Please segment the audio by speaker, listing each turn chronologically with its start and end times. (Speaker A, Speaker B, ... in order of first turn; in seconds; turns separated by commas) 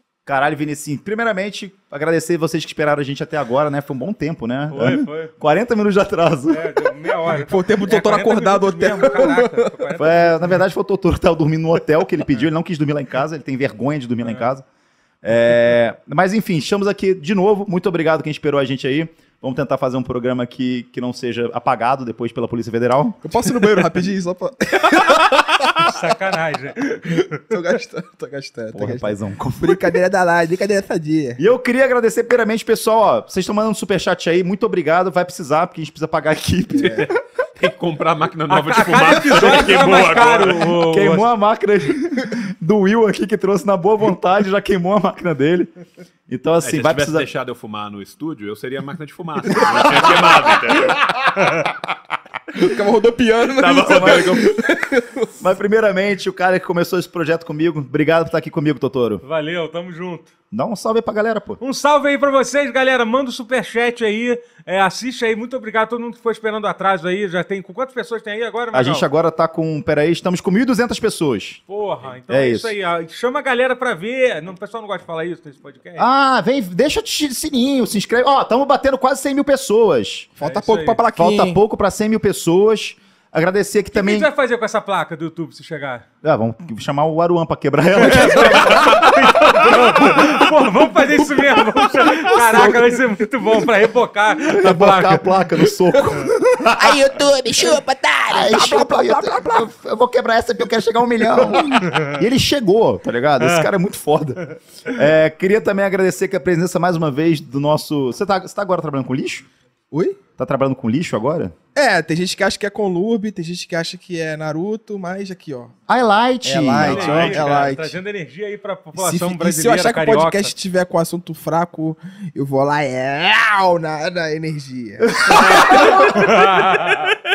Speaker A: 0.2-6.9, Speaker B: 4.7-5.3, Speaker B: 6.5-10.6, Speaker C: 7.3-9.8, Speaker A: 9.9-14.6, Speaker A: 15.2-23.5, Speaker C: 23.2-26.0, Speaker B: 25.8-27.6, Speaker C: 27.5-31.4, Speaker A: 28.7-29.9, Speaker A: 31.4-37.1, Speaker D: 36.7-40.7, Speaker C: 36.8-37.1, Speaker B: 38.5-41.2, Speaker A: 40.1-45.7, Speaker A: 46.3-47.3, Speaker D: 46.6-51.2, Speaker C: 49.6-50.0, Speaker A: 49.6-50.3, Speaker C: 52.5-55.3, Speaker D: 53.6-54.6, Speaker A: 53.9-54.3, Speaker A: 55.4-59.2, Speaker B: 59.2-60.3, Speaker A: 60.5-61.6, Speaker B: 61.6-69.0, Speaker A: 68.7-71.6, Speaker B: 71.7-76.1, Speaker A: 72.3-72.7, Speaker A: 76.0-80.3, Speaker C: 80.3-81.6, Speaker B: 80.4-81.0, Speaker A: 81.1-84.3, Speaker B: 83.9-86.0, Speaker A: 86.2-90.5, Speaker B: 88.0-95.2, Speaker C: 91.2-92.7, Speaker A: 92.3-93.0, Speaker A: 94.5-97.2, Speaker C: 96.8-99.5, Speaker A: 98.3-109.5, Speaker B: 101.8-102.1, Speaker B: 103.4-103.7, Speaker C: 109.9-110.2, Speaker A: 110.4-111.5, Speaker C: 111.7-115.7, Speaker A: 115.9-117.4, Speaker C: 116.4-118.0, Speaker B: 116.8-120.5, Speaker C: 118.9-126.3, Speaker A: 125.0-127.0, Speaker B: 125.7-127.2